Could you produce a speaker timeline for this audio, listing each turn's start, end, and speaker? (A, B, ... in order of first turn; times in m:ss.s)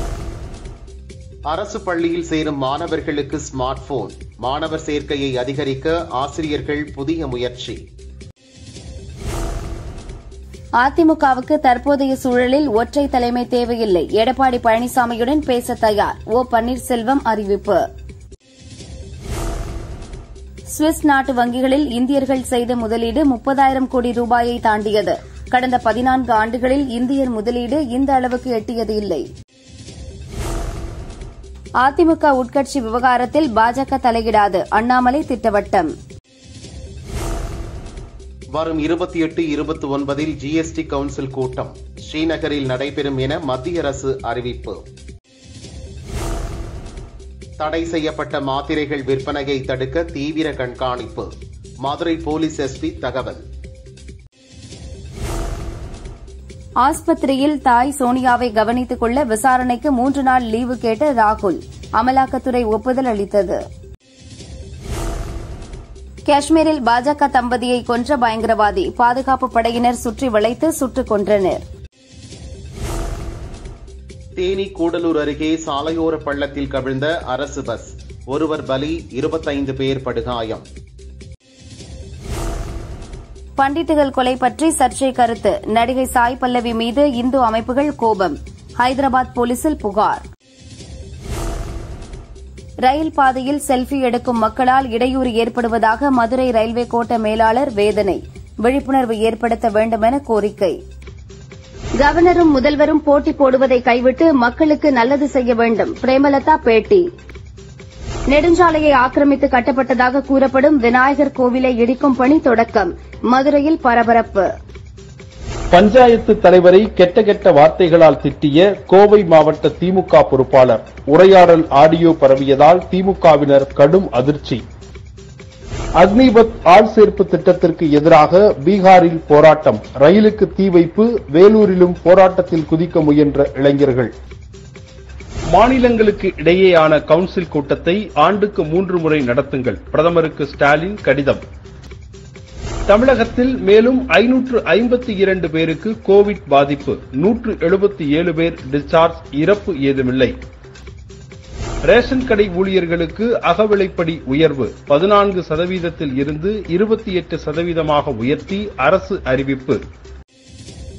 0:01.5-0:07.8 A
0:10.8-0:17.8 B
0:20.7-0:29.2 B
0:31.8-0:35.9 B
0:38.5-0:44.8 A
0:47.6-0:51.3 A
0:51.8-0:53.4 A
0:56.8-1:03.6 B
1:06.3-1:11.6 B
1:14.4-1:20.6 A
1:23.6-1:30.2 B
1:32.8-1:40.8 B
1:42.0-1:47.0 B
1:48.3-1:54.5 B
1:55.7-2:04.6 C
2:06.0-2:14.1 C
2:15.5-2:21.4 C
2:22.9-2:30.3 C
2:31.8-2:39.8 C